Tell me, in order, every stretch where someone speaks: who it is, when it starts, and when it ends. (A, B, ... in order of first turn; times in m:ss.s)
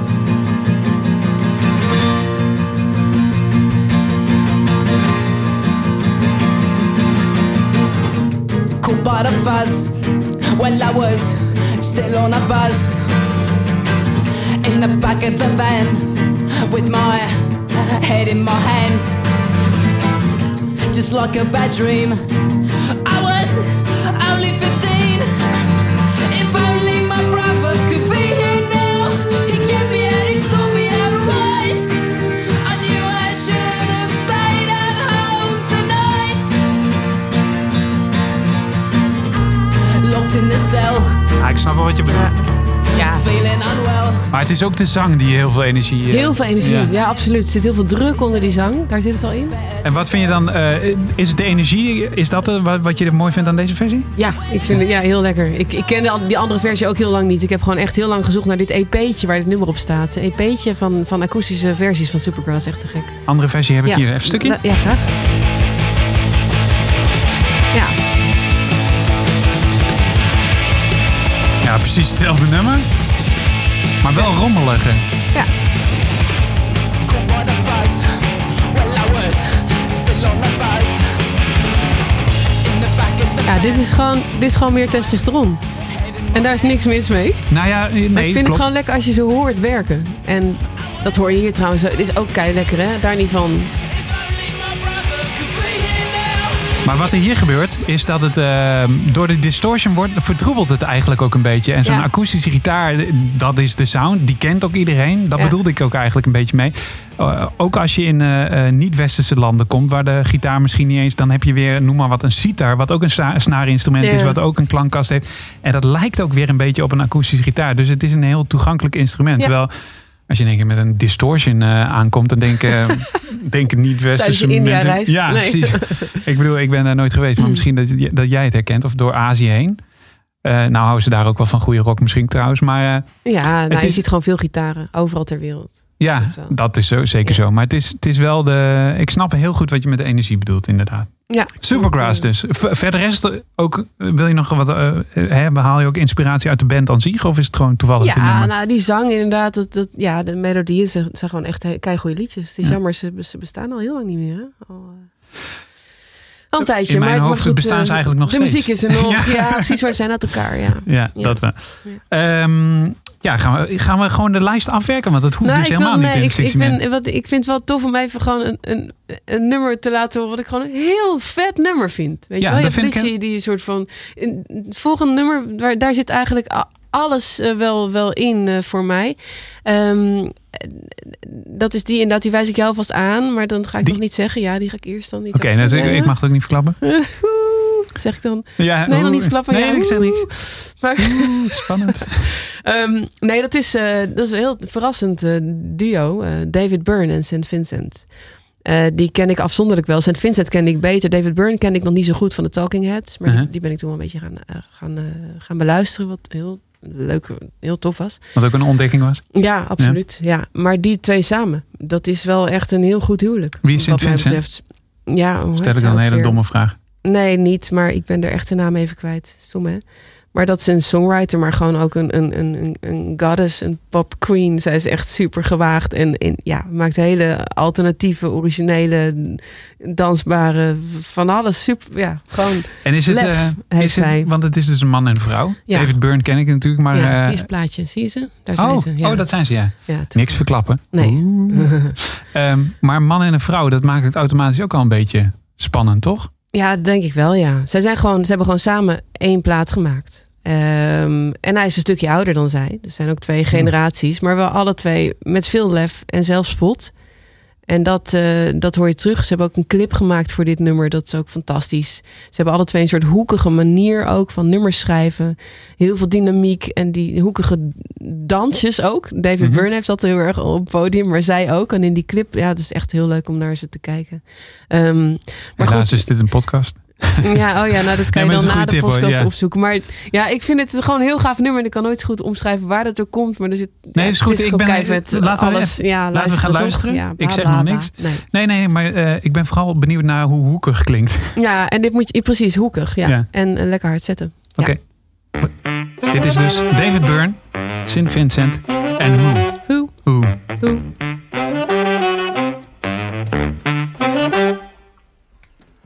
0:08.8-0:09.9 A
0:10.5-0:13.0 A
0:14.6-0:19.2 A
0:20.9-0:22.2 A
0:23.0-0:25.3 A
0:26.2-0:32.0 A
0:32.6-0:36.6 A
0:40.0-0:41.2 A
0:41.4-0:42.3 B
0:42.1-0:42.3 C
0:42.9-0:43.2 C
0:43.0-0:44.3 A
0:44.3-0:46.9 B
0:46.1-0:49.5 C
0:49.8-0:54.1 B
0:54.2-1:03.2 C
1:03.2-1:04.6 B
1:03.8-1:05.1 C
1:11.6-1:12.9 B
1:14.0-1:15.0 B
1:17.0-1:21.1 A
1:22.6-1:23.9 A
1:23.4-1:25.6 C
1:26.0-1:26.3 A
1:26.3-1:27.5 C
1:27.5-1:28.7 B
1:28.1-1:33.7 C
1:34.0-1:36.9 A
1:36.8-2:09.8 B
1:54.0-1:54.4 C
2:04.2-2:06.2 C
2:10.4-2:14.0 B
2:13.2-2:17.4 C
2:16.0-2:28.5 B
2:21.3-2:22.3 C
2:28.0-2:35.1 C
2:36.5-2:42.0 C
2:36.8-2:39.8 B
2:40.8-2:46.8 B
2:45.4-3:28.4 C
2:52.4-2:53.1 B
3:05.3-3:06.8 B
3:08.6-3:12.2 B
3:28.3-3:30.0 B
3:29.3-3:54.3 C
3:33.6-3:34.4 B
3:35.6-3:36.7 B
3:52.8-3:57.5 B
3:55.7-3:56.4 C
3:56.9-4:01.9 C
3:58.6-4:06.3 B
4:06.5-4:17.0 C
4:17.6-4:36.5 C
4:35.6-4:37.4 B
4:37.2-4:48.2 C
4:38.1-4:39.3 B
4:43.9-4:51.4 B
4:51.4-4:54.8 C
4:54.6-5:00.4 B
4:59.7-5:00.8 C